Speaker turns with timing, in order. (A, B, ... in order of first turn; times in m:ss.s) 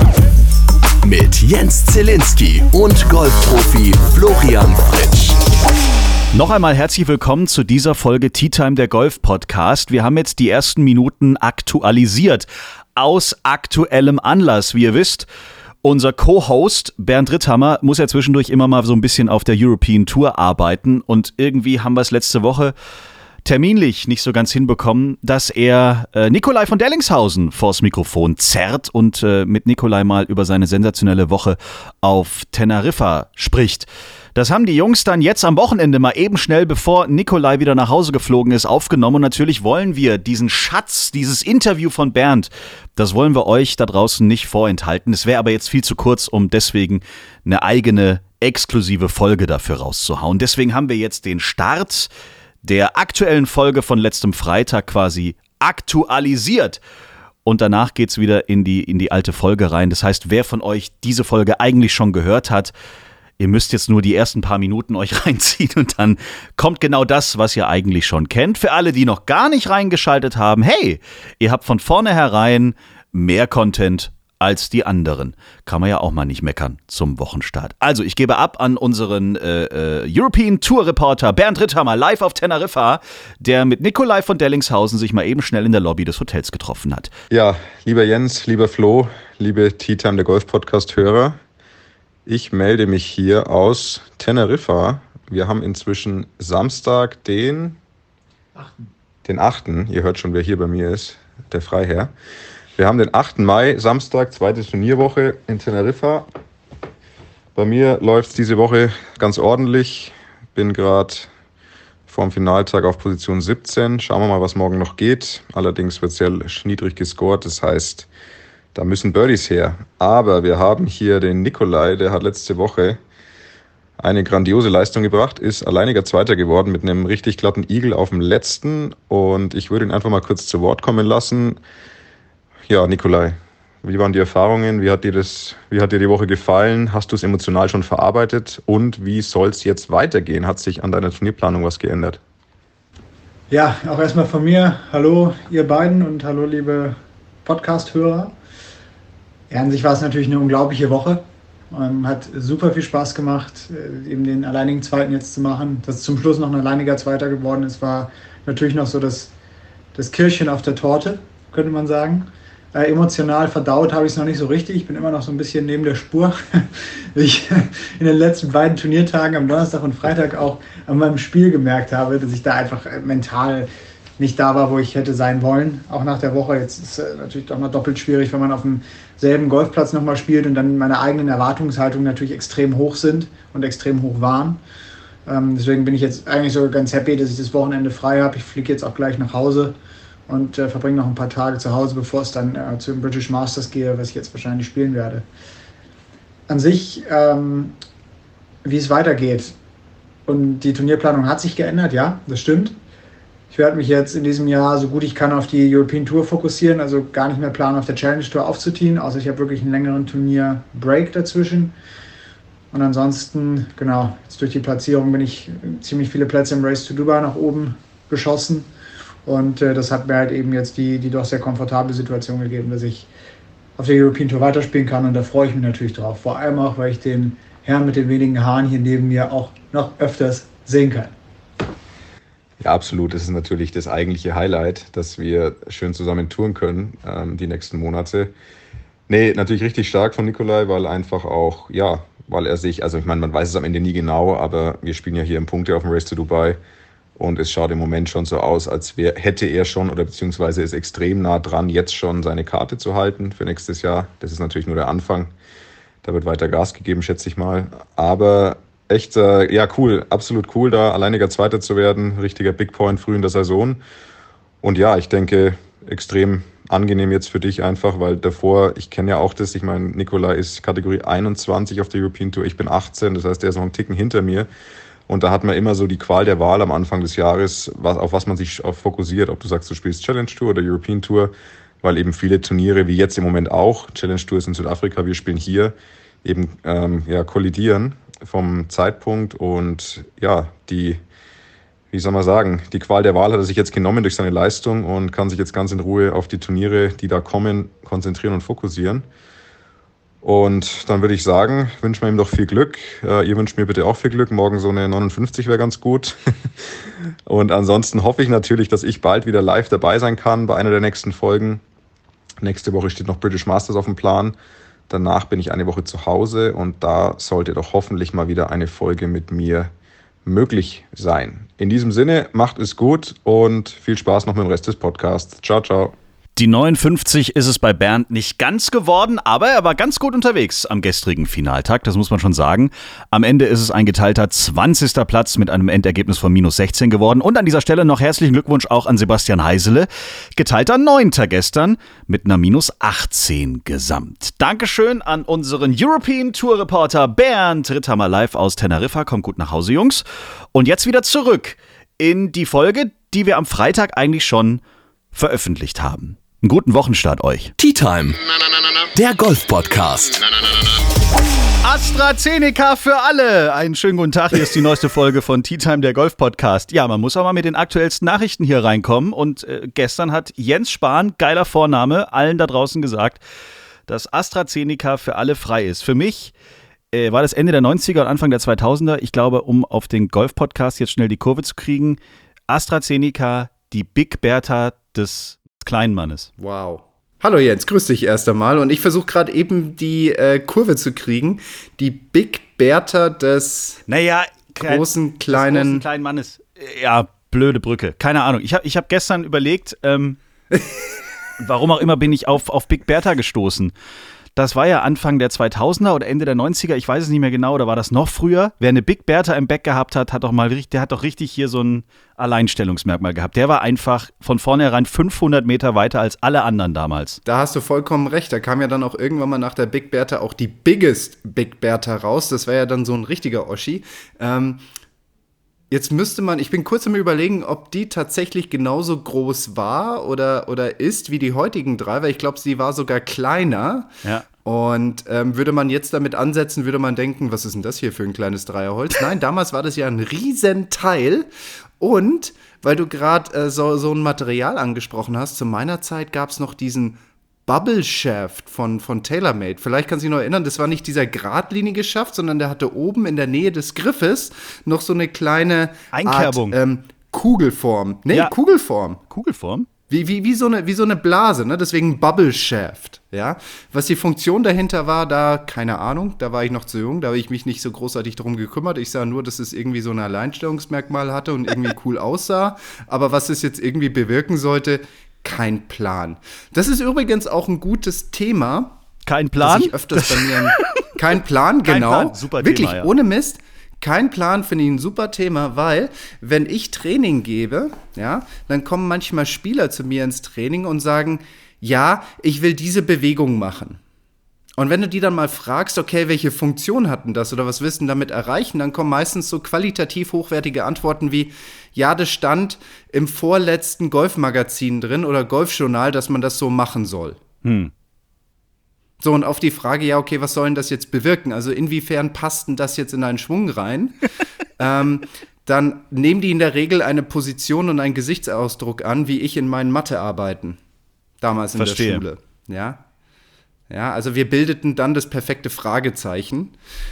0:01.0-0:05.4 A
0:06.3-0:15.3 B
0:15.8-0:22.7 B
0:23.4-0:52.1 B
0:52.6-0:56.8 B
0:57.4-1:02.7 B
1:03.4-1:27.1 B
1:27.3-1:31.4 C
1:32.3-1:37.8 C
1:39.2-1:42.1 C
1:42.8-1:46.3 C
1:47.6-1:51.3 C
1:52.1-1:58.1 C
1:58.8-2:03.0 C
2:04.0-2:11.6 C
2:12.7-2:22.2 C
2:23.5-2:28.4 D
2:29.5-2:39.3 D
2:40.0-3:04.6 D
3:05.3-3:09.8 D
3:10.3-3:15.3 D
3:16.5-3:17.8 D
3:18.6-3:19.6 D
3:20.3-3:22.8 D
3:23.5-3:31.7 D
3:32.7-3:38.7 D
3:39.2-3:43.1 D
3:43.8-3:51.2 D
3:52.6-3:58.3 C
3:59.1-4:06.6 C
4:07.2-4:15.3 C
4:16.0-4:23.8 C
4:24.6-4:34.5 C
4:35.1-4:51.0 C
4:51.9-4:59.0 C
5:00.2-5:06.2 C
5:07.3-5:11.6 C
5:12.4-5:14.4 C
5:14.9-5:19.7 C
5:20.3-5:26.0 C
5:26.4-5:50.0 B
5:50.5-5:54.6 B
5:55.1-5:57.5 B
5:57.6-5:58.2 A
5:59.0-6:00.3 A
6:01.6-6:13.2 B
6:13.9-6:16.3 B
6:16.9-6:22.0 B
6:22.5-6:26.3 B
6:26.4-6:33.8 E
6:33.9-6:40.2 B
6:34.7-6:35.8 E
6:40.5-6:40.8 E
6:41.4-6:43.7 B
6:44.4-6:57.2 B
6:57.2-7:04.6 E
7:05.7-7:13.9 E
7:14.4-7:21.3 E
7:21.8-7:39.0 E
7:35.9-7:36.6 B
7:39.1-7:39.7 B
7:39.9-7:58.8 E
7:59.1-8:00.9 B
7:59.4-8:13.8 E
8:01.6-8:02.9 B
8:14.6-8:27.2 E
8:27.4-8:27.7 B
8:29.0-8:40.6 E
8:41.2-8:42.8 E
8:41.6-8:42.0 B
8:43.7-8:46.5 E